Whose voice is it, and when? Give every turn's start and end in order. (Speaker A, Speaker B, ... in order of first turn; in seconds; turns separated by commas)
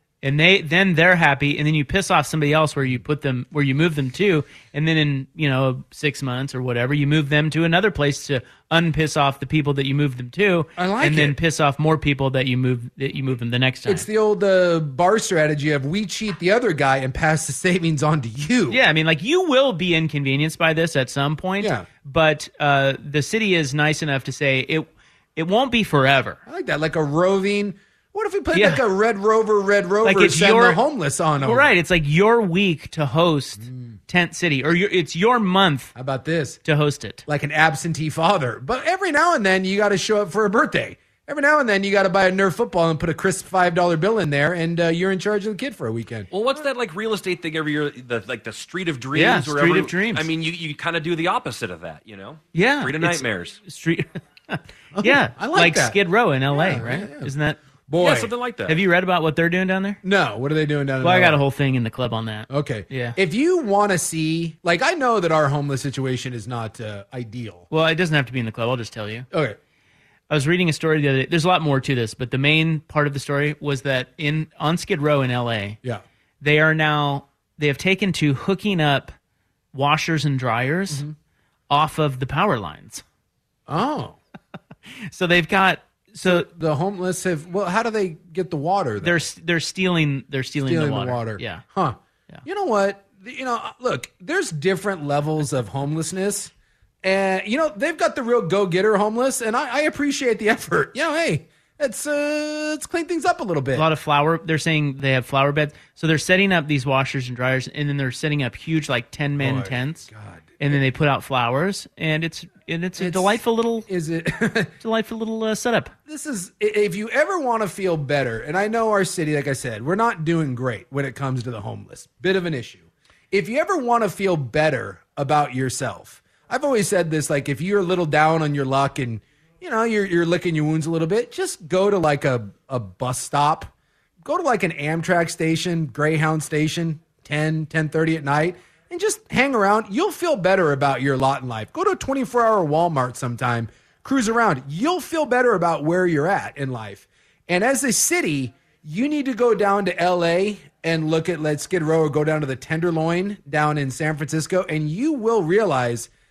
Speaker A: 0.2-14.1, Speaker B: 10.8-11.4, Speaker B: 13.8-18.8, Speaker A: 18.7-26.4, Speaker B: 21.6-21.9, Speaker B: 26.4-31.7, Speaker A: 28.5-28.8, Speaker A: 30.0-30.8, Speaker A: 31.4-35.9, Speaker B: 33.6-33.9, Speaker B: 35.9-36.6, Speaker A: 36.6-37.2, Speaker B: 37.3-46.3, Speaker C: 46.3-53.6, Speaker A: 49.1-50.3, Speaker A: 52.5-57.6, Speaker B: 54.9-56.0, Speaker B: 56.5-57.3, Speaker B: 57.9-58.3, Speaker C: 58.0-58.8, Speaker A: 58.7-60.0, Speaker B: 60.0-61.4, Speaker A: 61.0-63.2, Speaker B: 62.5-67.7, Speaker A: 67.7-69.3, Speaker B: 69.3-69.6, Speaker A: 70.3-75.8, Speaker A: 76.4-79.1, Speaker A: 79.7-81.0, Speaker A: 81.7-83.0, Speaker B: 83.7-84.2, Speaker A: 85.1-86.5, Speaker B: 86.2-89.3, Speaker A: 89.0-91.6, Speaker B: 90.6-96.5, Speaker B: 97.0-103.9, Speaker A: 103.7-113.9, Speaker B: 109.4-110.6, Speaker B: 113.0-114.7, Speaker A: 114.8-115.9, Speaker B: 116.1-156.1